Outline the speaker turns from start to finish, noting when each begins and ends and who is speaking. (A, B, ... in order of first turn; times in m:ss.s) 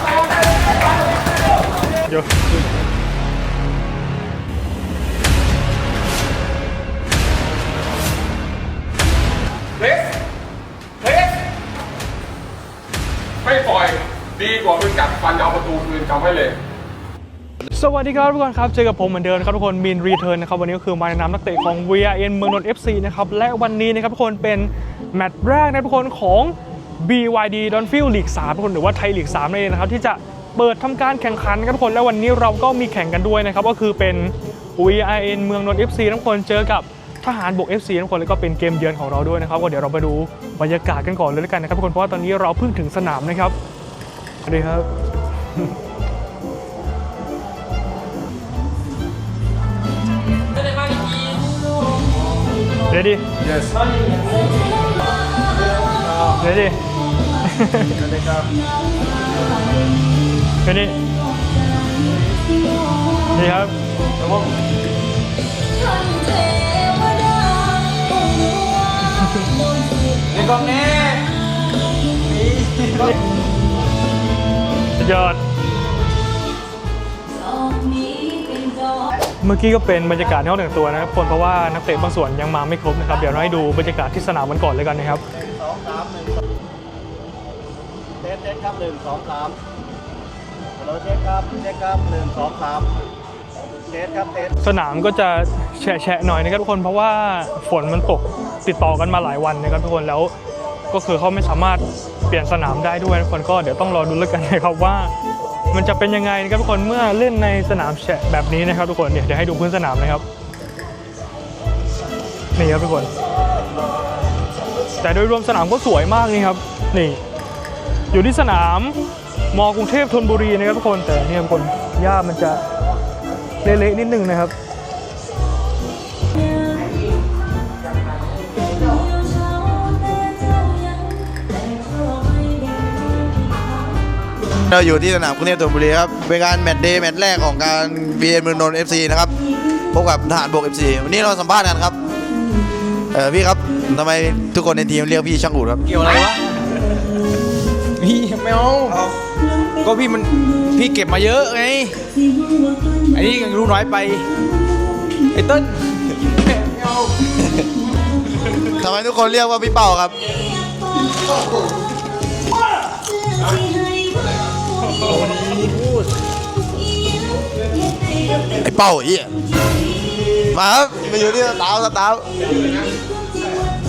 0:02.0-0:02.7 A
0:09.8-0:10.1 B
0:11.0-0:11.4 B
0:13.4-0:16.6 B
0:17.7-0:43.5 A
0:44.4-0:44.9 A
0:52.9-0:53.2 A
0:56.4-0:56.8 A
0:57.4-0:58.0 A
1:00.6-1:01.0 A
1:03.3-1:03.7 A
1:10.4-1:11.0 C
1:15.0-1:15.4 A
1:19.4-1:25.2 A
1:25.3-1:26.4 D
1:28.2-1:29.6 D
1:30.8-1:32.9 D
1:33.9-1:34.5 D
1:34.6-1:40.3 A
1:40.9-1:45.1 A
1:45.7-1:50.2 A
1:52.6-1:53.1 A
1:55.0-1:57.2 A
1:58.1-1:59.0 A
1:59.5-2:02.6 A
2:03.6-2:04.5 A
2:14.6-2:19.3 E
2:19.9-2:22.0 E
2:23.1-2:25.8 E
2:25.9-2:26.4 C
2:28.0-2:29.0 C
2:29.8-2:32.0 C
2:33.1-2:34.2 C
2:35.3-2:35.8 C
2:38.8-2:40.1 E
2:45.0-2:45.3 A
2:48.6-2:49.4 E
2:50.5-2:52.2 E
2:52.4-2:52.9 B